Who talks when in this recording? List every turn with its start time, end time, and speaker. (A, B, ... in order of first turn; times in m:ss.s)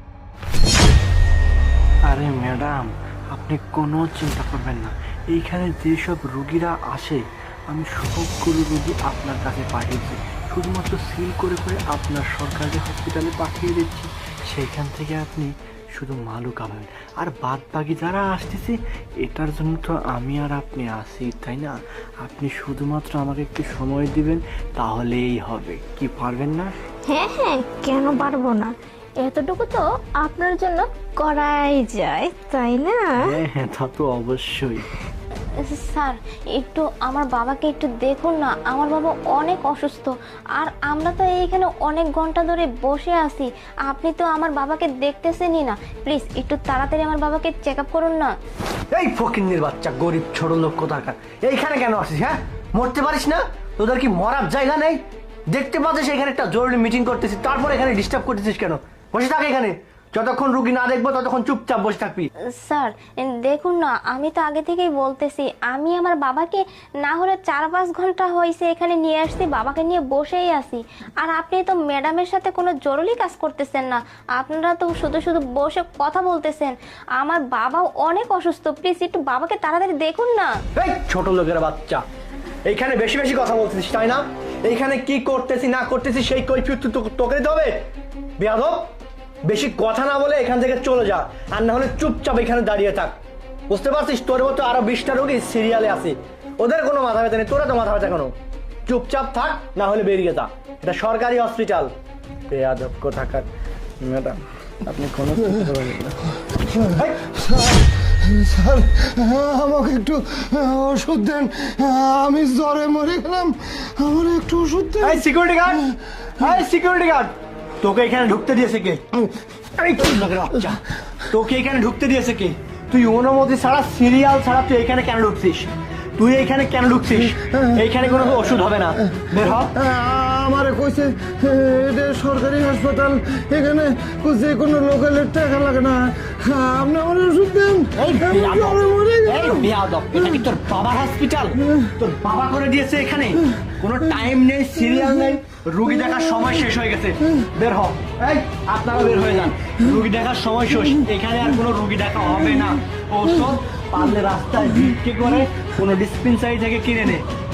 0:02.1-0:26.8 A
0:27.1-0:28.7 B
0:29.2-0:30.9 C
0:31.3-0:33.3 B
0:33.3-0:34.9 A
0:35.6-0:48.3 C
0:48.9-1:02.3 D
1:02.6-1:20.6 C
1:20.8-1:22.0 D
1:22.6-1:27.8 D
1:28.4-1:28.9 D
1:29.4-1:33.2 D
1:33.7-1:38.3 D
1:38.9-1:41.9 D
1:42.5-1:43.5 D
1:44.8-1:46.2 A
1:47.0-1:47.2 D
1:47.3-1:55.2 E
1:55.0-1:55.8 D
1:56.4-1:59.2 D
1:59.8-2:09.7 D
2:09.8-2:19.6 E
2:18.0-2:37.3 D